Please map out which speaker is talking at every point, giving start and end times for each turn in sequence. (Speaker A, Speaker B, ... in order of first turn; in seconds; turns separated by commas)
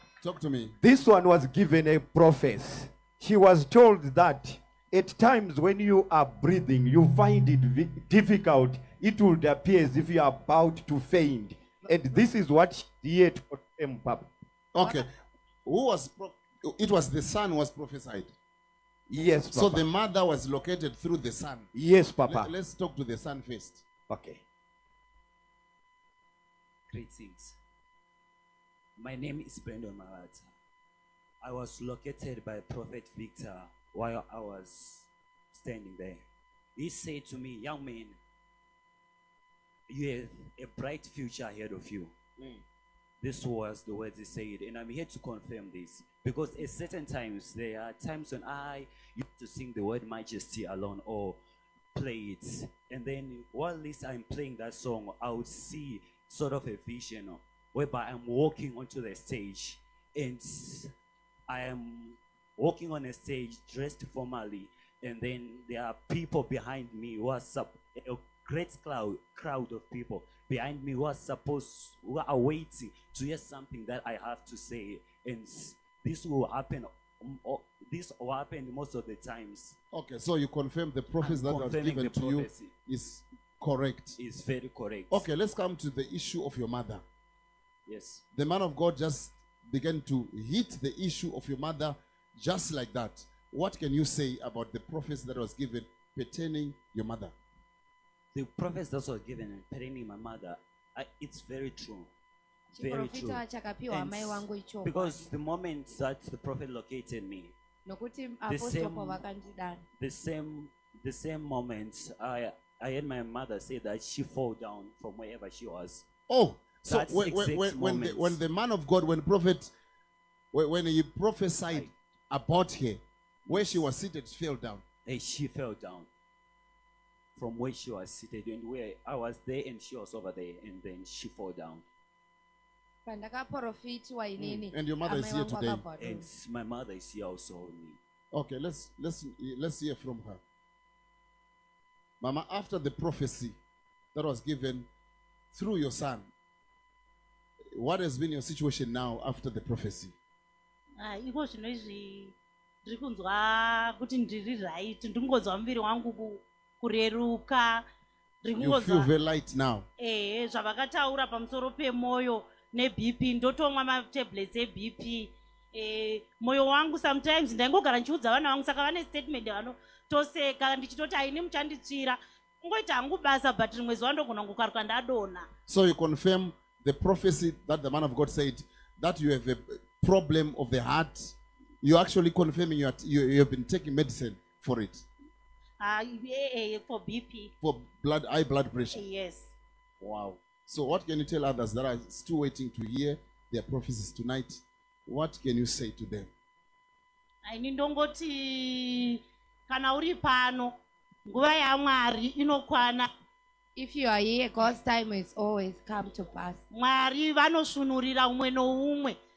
Speaker A: 0.2-0.8, Speaker B: 0.8-14.3, Speaker A: 14.7-15.1, Speaker A: 15.7-18.4, Speaker B: 19.1-19.8, Speaker A: 19.5-21.7, Speaker B: 21.7-22.5, Speaker A: 22.2-23.8, Speaker B: 24.1-24.4, Speaker C: 26.9-27.6, Speaker C: 29.0-30.5, Speaker C: 31.4-36.2, Speaker C: 36.8-38.2, Speaker C: 39.9-42.1, Speaker A: 42.4-42.6, Speaker C: 43.2-51.4, Speaker C: 51.9-60.9, Speaker C: 61.5-79.8, Speaker A: 79.9-84.2, Speaker C: 81.2-82.7, Speaker C: 84.2-85.2, Speaker A: 85.1-87.0, Speaker C: 87.9-88.2, Speaker A: 88.3-97.3, Speaker C: 98.3-102.1, Speaker D: 102.8-105.3, Speaker C: 102.8-107.5, Speaker D: 107.9-109.8, Speaker C: 108.5-109.2, Speaker C: 110.0-116.1, Speaker A: 116.3-119.7, Speaker C: 116.9-118.4, Speaker A: 120.5-124.8, Speaker C: 125.0-126.1, Speaker C: 127.4-131.8, Speaker D: 133.1-136.3, Speaker A: 134.4-135.8, Speaker C: 136.0-138.0, Speaker A: 138.3-140.4, Speaker A: 142.2-143.6, Speaker A: 144.1-144.9, Speaker A: 145.5-146.3, Speaker A: 147.7-150.2, Speaker E: 151.0-152.3, Speaker E: 152.9-157.8, Speaker E: 158.4-159.1, Speaker A: 158.6-159.9, Speaker E: 160.0-175.5, Speaker A: 175.7-185.1, Speaker E: 185.8-187.5, Speaker A: 187.6-189.1, Speaker E: 188.9-189.5, Speaker A: 190.0-196.3, Speaker E: 197.5-200.7, Speaker E: 201.3-203.1, Speaker D: 203.8-206.6, Speaker E: 206.7-209.2